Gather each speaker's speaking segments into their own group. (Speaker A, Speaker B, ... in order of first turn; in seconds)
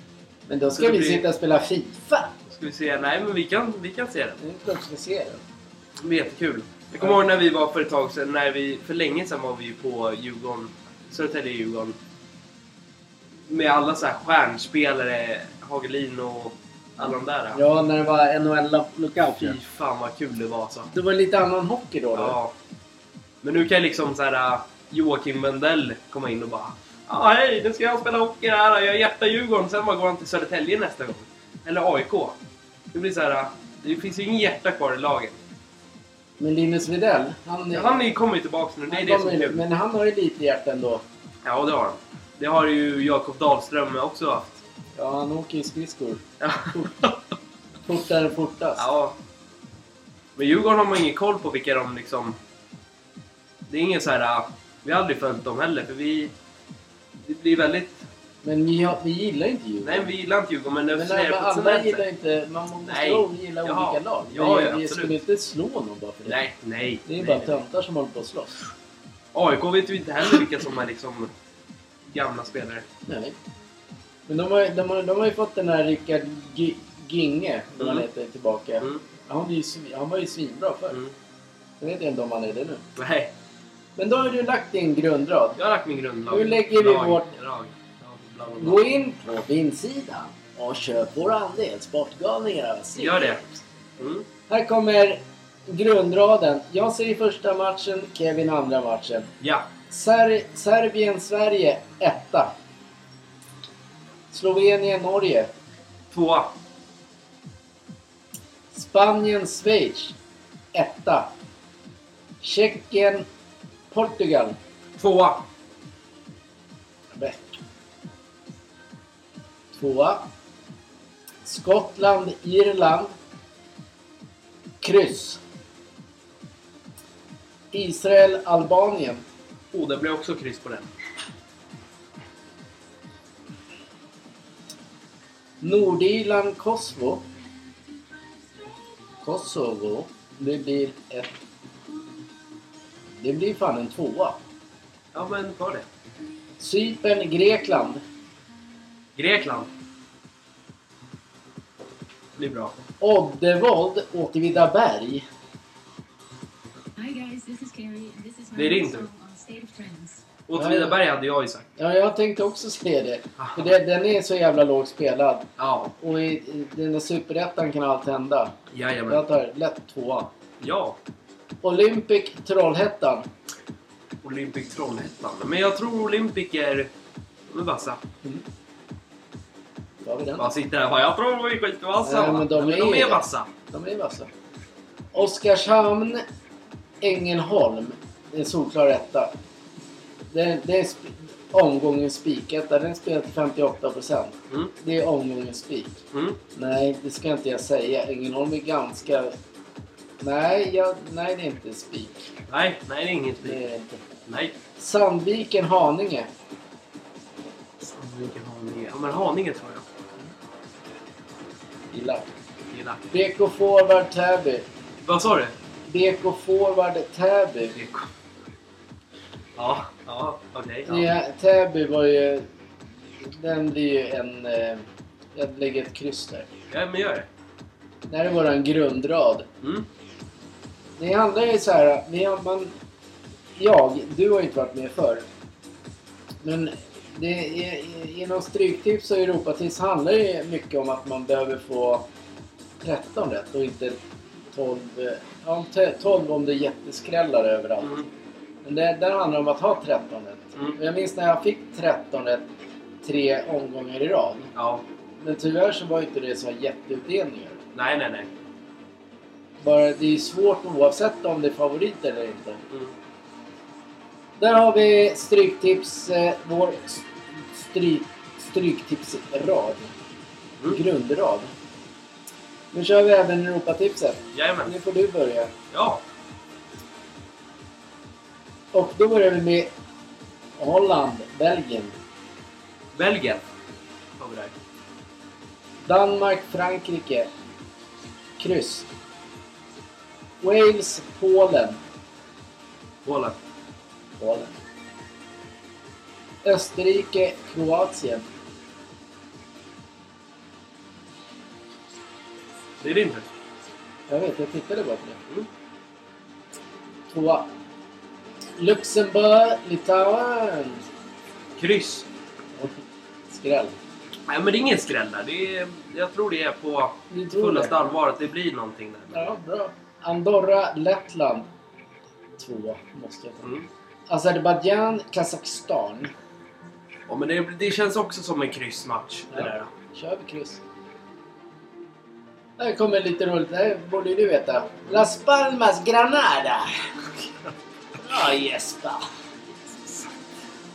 Speaker A: 0.5-2.3, 4.4-5.4, 17.5-19.6, 20.9-22.4, 36.4-38.0, 38.9-41.0, 45.0-47.0, 47.9-48.9, 58.4-60.1, 60.9-66.4, 67.0-68.7, 73.0-73.3, 74.3-81.0, 81.8-82.8, 84.0-85.6, 86.3-87.3, 88.6-93.6, 94.5-99.3, 99.9-102.5, 104.3-105.5, 108.7-110.1, 110.7-111.3, 112.4-113.2, 113.9-114.6, 117.1-117.5, 119.7-120.3, 121.4-123.1, 124.8-125.4, 127.7-129.2, 135.6-137.2, 139.2-141.4, 143.2-144.4, 146.6-148.0, 153.0-155.2, 160.5-161.0, 161.8-168.5, 169.1-170.3, 171.6-173.2, 180.0-180.5, 182.0-184.3, 185.1-186.2, 187.0-189.3, 190.3-196.0, 196.5-199.3, 200.2-202.3, 203.4-204.0, 204.8-206.3, 211.9-212.3, 213.1-214.7, 215.9-217.8, 220.8-222.5, 223.2-224.8, 225.3-226.5, 228.1-229.5, 231.0-232.7, 233.6-235.2, 236.4-242.0, 242.8-244.0, 244.5-248.0, 248.6-252.5, 253.0-254.5, 255.2-257.6, 259.6-262.6, 264.4-269.9, 270.7-271.5, 272.7-275.5, 278.7-279.7, 280.6-281.9, 285.8-287.3, 288.4-288.9, 290.4-291.8, 294.2-294.5, 296.4-298.2, 304.1-305.2, 307.1-307.5, 308.6-310.9, 312.6-313.8, 317.1-317.8, 319.1-321.5, 322.4-323.5, 324.1-326.1, 329.3-330.6, 332.6-336.9, 337.9-339.1
Speaker B: 0.7-1.2, 2.5-4.4, 6.0-11.9, 13.5-17.6, 19.4-20.9, 22.1-22.5, 23.4-32.4, 32.9-35.4, 37.7-39.6, 41.4-44.6, 46.4-47.2, 48.8-49.1, 50.4-52.4, 53.7-56.3, 57.2-58.0, 59.8-62.0, 62.9-65.2, 66.2-67.6, 69.3-71.3, 72.1-72.8, 77.8-78.0, 83.0-83.3, 85.6-88.8, 93.0-93.4, 94.0-94.2, 99.4-99.7, 106.1-106.5, 115.0-115.4, 129.7-130.9, 145.1-145.8, 149.2-149.7, 152.4-152.7, 158.5-159.1, 160.5-161.7, 163.4-163.7, 165.6-165.9, 168.7-169.2, 170.6-171.0, 174.2-176.9, 177.5-178.0, 180.4-183.5, 196.1-196.4, 202.5-203.6, 204.3-204.6, 207.8-209.8, 212.7-213.0, 215.0-215.5, 217.7-218.1, 219.6-221.1, 226.7-227.3, 229.6-229.9, 254.5-254.8, 257.7-258.3, 274.3-274.7, 275.7-276.0, 282.9-283.4, 284.2-284.5, 293.0-293.4, 302.8-303.3, 311.6-312.1, 314.3-319.2, 327.1-329.7
Speaker C: 157.0-160.2